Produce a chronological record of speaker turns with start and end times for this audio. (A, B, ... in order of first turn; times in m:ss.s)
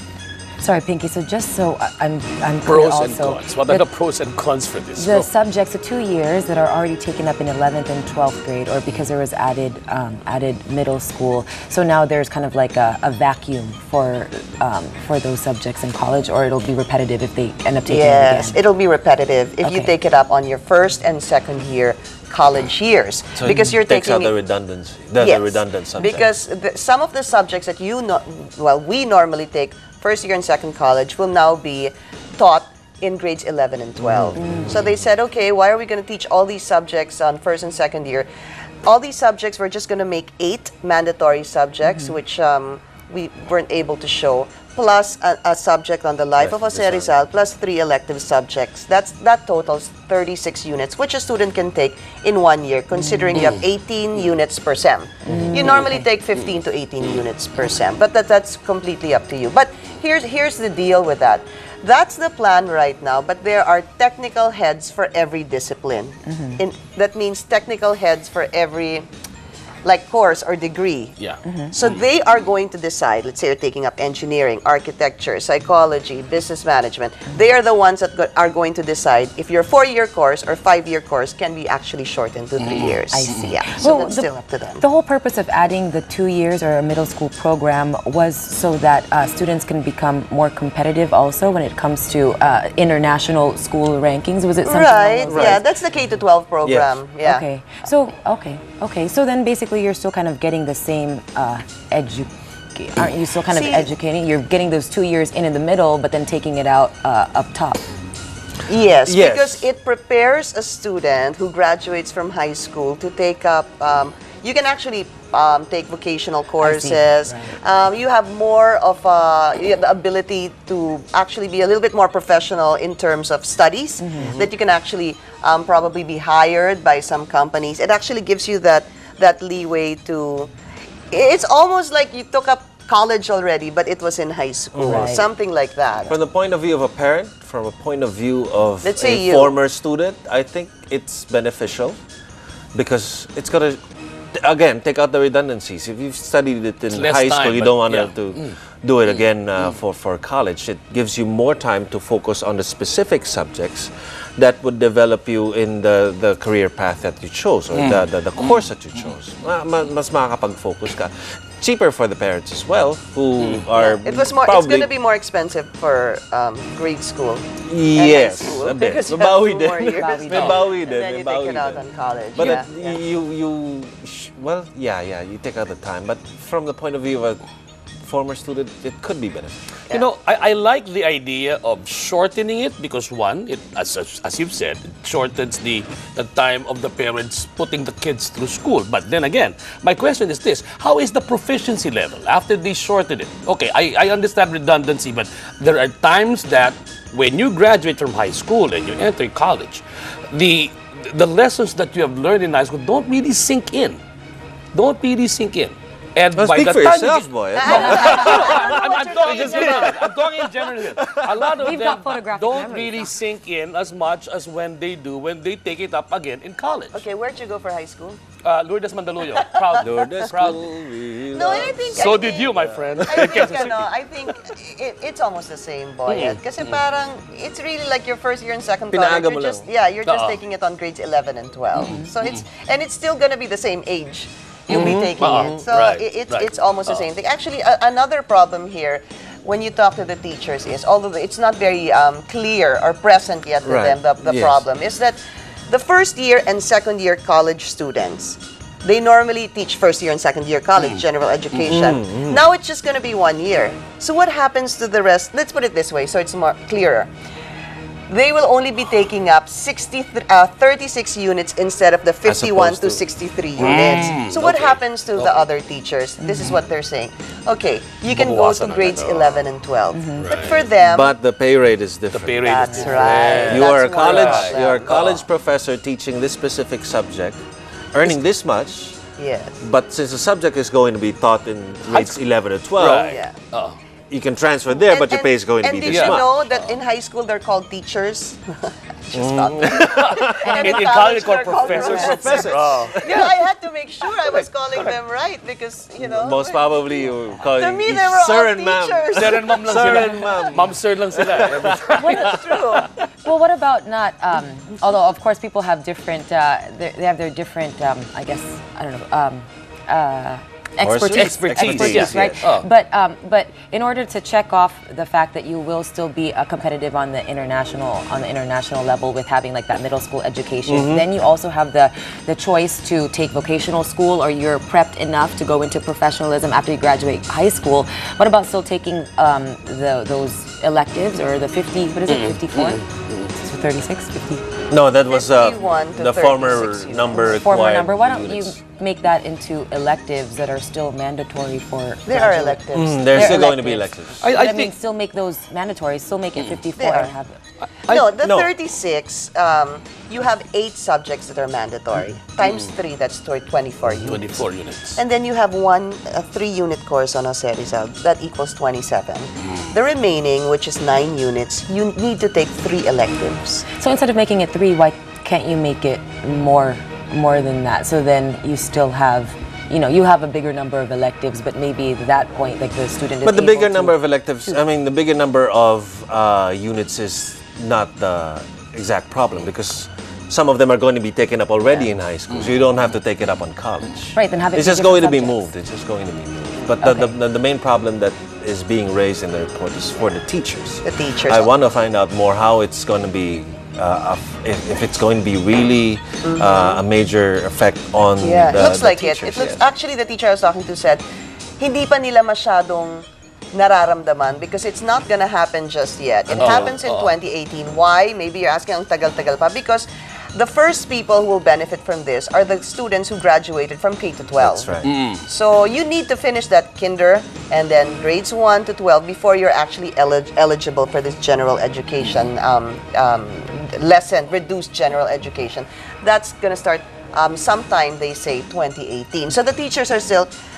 0:00.6-0:03.9 A
0:02.6-0:05.3 B
0:05.0-0:18.6 A
0:17.9-0:24.3 C
0:19.6-0:19.9 A
0:23.4-0:26.3 D
0:25.2-0:38.3 C
0:34.1-0:34.8 D
0:34.4-0:34.8 A
0:38.8-1:09.1 C
0:41.8-0:42.2 A
0:46.4-0:47.1 D
0:52.9-0:53.5 A
0:53.3-0:53.6 B
0:55.3-0:56.0 A
0:55.5-0:55.9 B
1:06.3-1:06.6 A
1:09.8-1:11.2 C
1:11.2-1:12.0 B
1:11.4-1:11.7 A
1:11.7-1:24.8 C
1:22.6-1:23.5 B
1:23.1-1:24.3 A
1:24.8-1:35.6 A
1:34.6-1:37.5 C
1:35.3-1:35.6 D
1:36.7-1:37.0 D
1:37.2-1:47.8 A
1:43.5-1:43.9 C
1:48.6-2:10.5 C
1:49.1-1:49.6 D
1:56.6-1:57.6 A
2:04.0-2:04.4 A
2:11.1-2:16.1 C
2:14.7-2:15.2 D
2:14.9-2:15.3 A
2:16.1-2:22.0 D
2:18.8-2:19.6 C
2:22.7-2:23.8 D
2:24.3-2:44.9 D
2:26.9-2:28.6 B
2:37.7-2:38.7 B
2:43.4-2:43.7 B
2:43.7-2:53.0 C
2:47.6-2:51.8 D
2:50.0-2:50.7 A
2:52.4-2:57.4 D
2:58.0-2:59.5 D
2:59.9-3:24.0 B
3:24.7-3:37.0 B
3:26.4-3:28.8 D
3:27.5-3:30.0 C
3:27.7-3:28.4 A
3:29.4-3:31.4 D
3:31.6-3:33.1 A
3:36.9-3:38.2 C
3:38.4-3:40.7 B
3:39.4-3:39.8 C
3:39.8-3:43.4 D
3:41.3-4:17.1 C
3:41.9-3:43.8 B
3:46.1-3:46.7 B
3:48.9-3:49.7 D
3:50.1-3:50.4 B
3:51.8-3:52.4 B
3:54.7-3:57.1 B
4:03.6-4:04.6 D
4:11.7-4:12.4 D
4:18.1-4:31.1 C
4:22.2-4:23.0 D
4:23.6-4:25.4 B
4:26.2-4:26.6 A
4:28.1-4:29.4 B
4:29.9-4:30.4 A
4:30.2-4:30.7 B
4:30.8-4:37.4 D
4:32.1-4:34.6 B
4:32.4-4:35.2 C
4:32.7-4:33.4 A
4:37.9-4:39.0 D
4:39.2-4:39.6 C
4:39.6-4:43.2 D
4:41.9-4:42.2 B
4:42.8-4:43.8 B
4:43.0-4:43.4 C
4:44.1-4:46.3 D
4:44.8-5:00.2 C
4:45.9-4:46.4 B
4:49.1-4:50.6 D
4:49.6-4:53.3 B
4:50.4-4:50.9 A
4:51.7-4:53.3 D
4:56.0-5:02.5 D
4:59.1-5:02.4 B
5:02.0-5:02.4 A
5:02.0-5:02.9 C
5:03.1-5:34.5 A
5:10.8-5:12.4 D
5:11.1-5:12.7 B
5:20.7-5:21.1 D
5:32.1-5:33.3 B
5:34.7-5:38.6 D
5:35.1-5:37.4 C
5:37.2-5:47.4 A
5:42.1-5:43.4 C
5:42.7-5:44.3 D
5:44.2-5:44.7 B
5:46.8-5:47.1 C
5:47.6-5:48.0 B
5:47.9-5:54.4 C
5:47.9-5:48.5 D
5:54.0-5:55.0 B
5:55.0-6:03.7 C
6:03.8-6:14.6 A
6:13.2-6:39.6 D
6:22.4-6:22.6 B
6:24.1-6:25.5 A
6:26.8-6:27.1 A
6:30.8-6:31.5 C
6:36.2-6:36.8 C
6:38.2-6:41.0 C
6:41.6-7:10.3 C
6:46.3-6:46.7 D
6:46.3-6:47.1 B
6:54.4-6:54.9 D
6:54.8-6:55.3 B